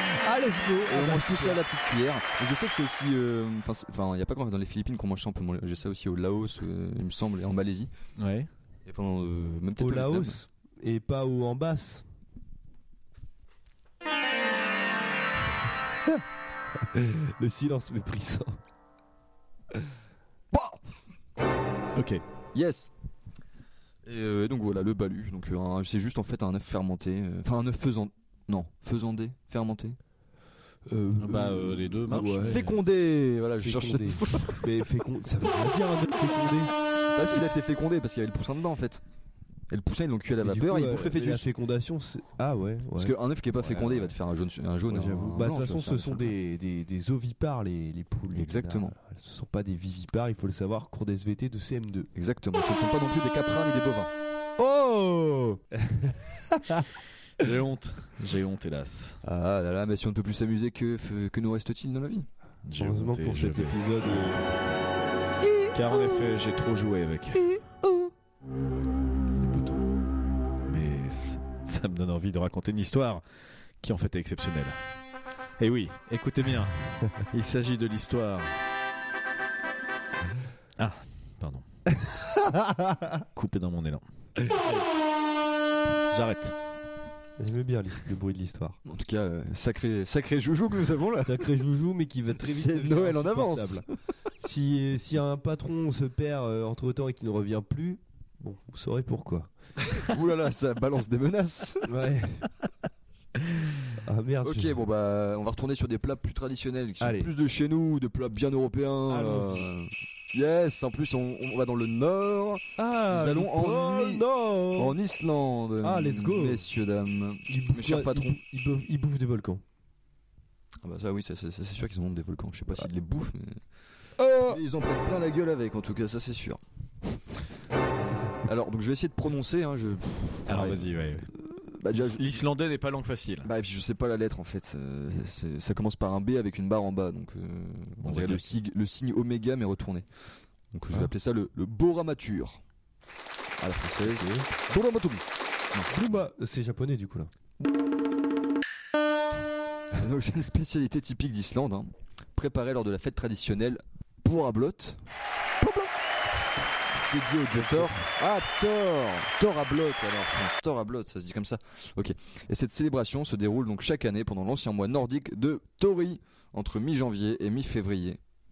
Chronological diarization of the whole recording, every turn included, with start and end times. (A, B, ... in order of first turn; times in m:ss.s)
0:00.1-0:01.6 A
0:00.9-0:07.9 B
0:08.2-0:08.5 C
0:08.8-0:10.4 B
0:09.8-0:12.0 A
0:16.9-0:18.6 A
0:20.5-0:20.8 B
0:21.9-0:22.2 C
0:22.5-0:22.9 B
0:24.0-0:30.0 B
0:30.9-0:32.7 A
0:31.2-0:32.8 C
0:32.4-0:34.7 B
0:33.6-0:36.7 A
0:37.1-0:39.0 B
0:39.7-0:41.5 B
0:40.4-0:43.1 A
0:43.0-0:46.3 B
0:44.9-0:52.1 A
0:48.3-0:48.9 B
0:52.1-0:54.1 B
0:54.6-0:56.9 A
0:57.4-0:59.2 C
0:59.2-1:02.3 B
1:02.6-1:04.9 C
1:02.8-1:04.4 A
1:05.7-1:07.6 C
1:09.4-1:09.8 C
1:10.6-1:13.2 C
1:13.8-1:14.8 C
1:15.6-1:18.6 C
1:20.8-1:21.6 C
1:22.0-1:23.0 A
1:23.3-1:24.0 C
1:26.1-1:26.5 C
1:27.4-1:28.8 A
1:28.8-1:31.4 B
1:31.2-1:33.8 A
1:32.4-1:33.9 B
1:34.4-1:39.5 A
1:39.9-1:41.9 B
1:41.8-1:42.5 A
1:44.0-1:44.8 A
1:44.4-1:58.4 B
1:47.0-1:47.3 A
1:49.1-1:49.7 A
1:52.8-1:55.0 A
1:55.8-1:56.6 A
1:57.5-1:59.6 A
2:00.8-2:03.6 B
2:04.2-2:04.6 A
2:04.4-2:07.2 B
2:08.4-2:12.4 B
2:10.5-2:11.3 C
2:12.0-2:13.5 C
2:13.4-2:20.1 B
2:18.0-2:18.6 C
2:20.7-2:22.6 B
2:23.6-2:25.9 B
2:25.9-2:27.3 A
2:30.0-2:35.0 B
2:35.6-2:35.9 B
2:37.0-2:48.2 B
2:37.5-2:38.0 A